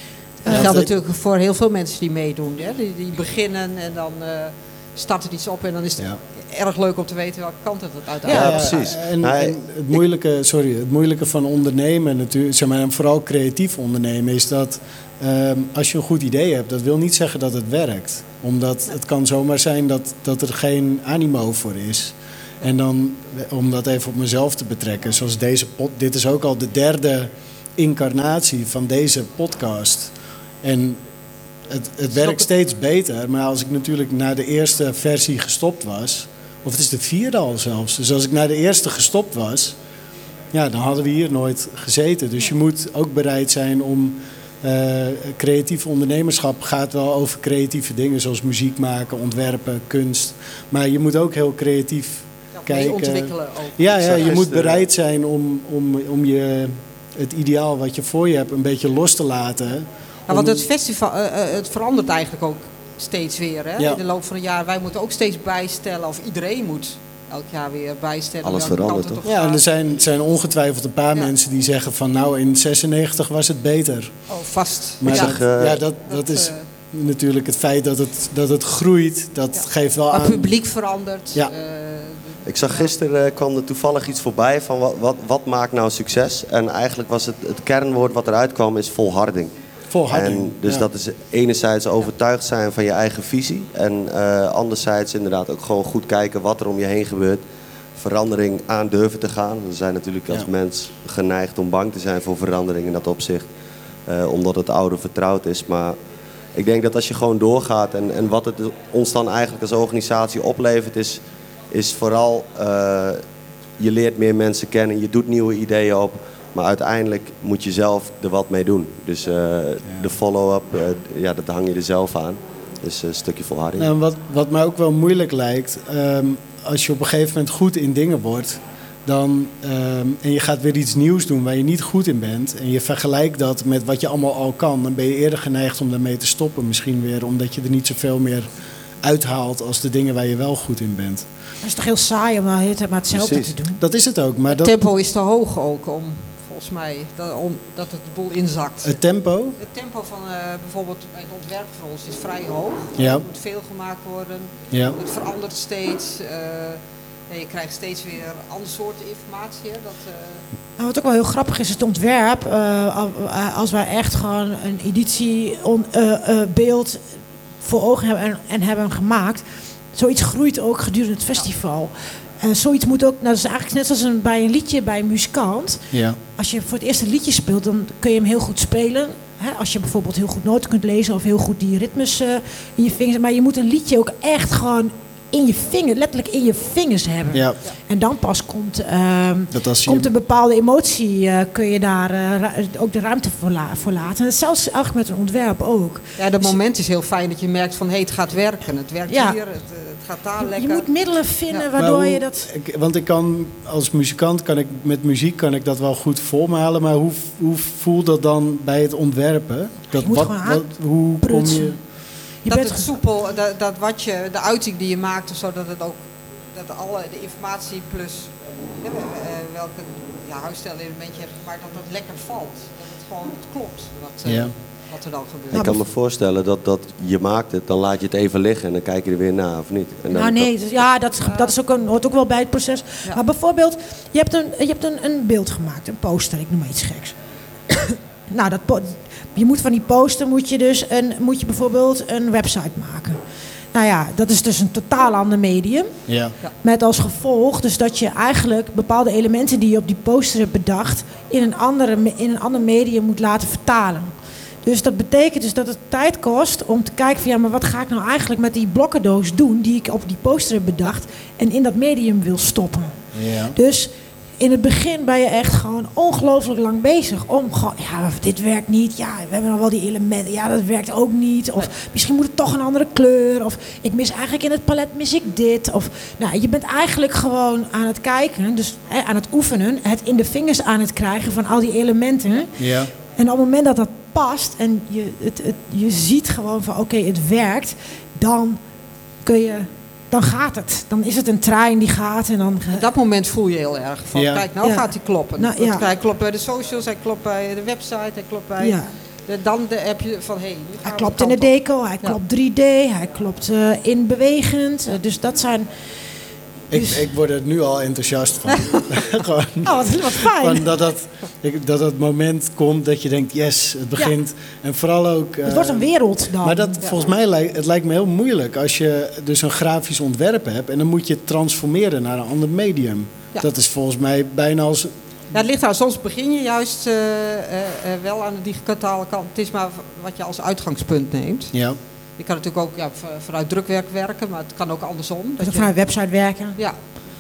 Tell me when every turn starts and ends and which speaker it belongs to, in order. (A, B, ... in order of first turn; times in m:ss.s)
0:00.4-0:00.8 A
0:00.5-0:00.9 B
0:00.5-0:08.9 C
0:08.3-0:08.6 A
0:08.3-0:10.0 D
0:08.3-0:31.0 B
0:31.7-0:39.8 B
0:32.1-0:32.4 C
0:40.5-1:00.7 B
0:52.6-0:54.5 C
0:54.0-0:54.8 D
1:00.3-1:09.6 C
1:08.4-1:09.2 D
1:09.2-1:14.2 B
1:14.3-1:16.6 C
1:15.0-1:20.6 B
1:15.1-1:15.8 D
1:19.6-1:22.9 C
1:22.5-1:29.5 D
1:29.9-1:30.9 B
1:30.1-1:37.4 D
1:38.0-1:43.5 D
1:44.1-1:46.0 D
1:46.6-1:53.2 D
1:53.8-2:03.9 D
2:03.8-2:18.5 B
2:19.0-2:21.3 B
2:21.6-2:23.8 A
2:23.2-2:23.5 D
2:23.8-2:24.8 B
2:24.5-2:29.0 C
2:28.8-2:29.6 B
2:29.6-2:40.4 C
2:33.0-2:33.3 B
2:34.7-2:35.0 B
2:40.8-2:47.1 A
2:47.6-3:16.6 A
2:55.9-2:56.2 B
3:07.3-3:07.6 B
3:09.5-3:10.1 B
3:16.2-3:20.9 C
3:19.1-3:19.4 A
3:20.4-3:22.5 A
3:21.8-3:31.8 B
3:30.0-3:31.9 A
3:32.4-3:33.0 A
3:32.5-3:36.0 C
3:36.5-3:45.8 C
3:44.2-3:44.5 B
3:45.5-3:45.8 A
3:45.5-3:50.5 D
3:50.1-3:57.2 A
3:51.2-3:51.5 C
3:57.7-4:03.2 A
4:03.7-4:05.9 A
4:06.1-4:06.3 B
4:06.6-4:14.1 A
4:14.6-4:23.0 A
4:23.1-4:23.6 B
4:23.5-4:48.6 A
4:42.6-4:42.9 B
4:49.2-4:52.8 A
4:52.7-5:02.2 C
4:54.1-4:54.5 B
4:54.6-4:55.9 A
4:58.6-4:58.9 A
5:00.8-5:05.7 A
5:06.7-5:24.9 B
5:06.7-5:07.1 A
5:08.5-5:09.1 C
5:09.6-5:10.7 A
5:15.5-5:16.8 A
5:25.3-5:31.5 C
5:31.5-5:31.8 B
5:32.2-5:35.7 C
5:35.4-5:36.6 A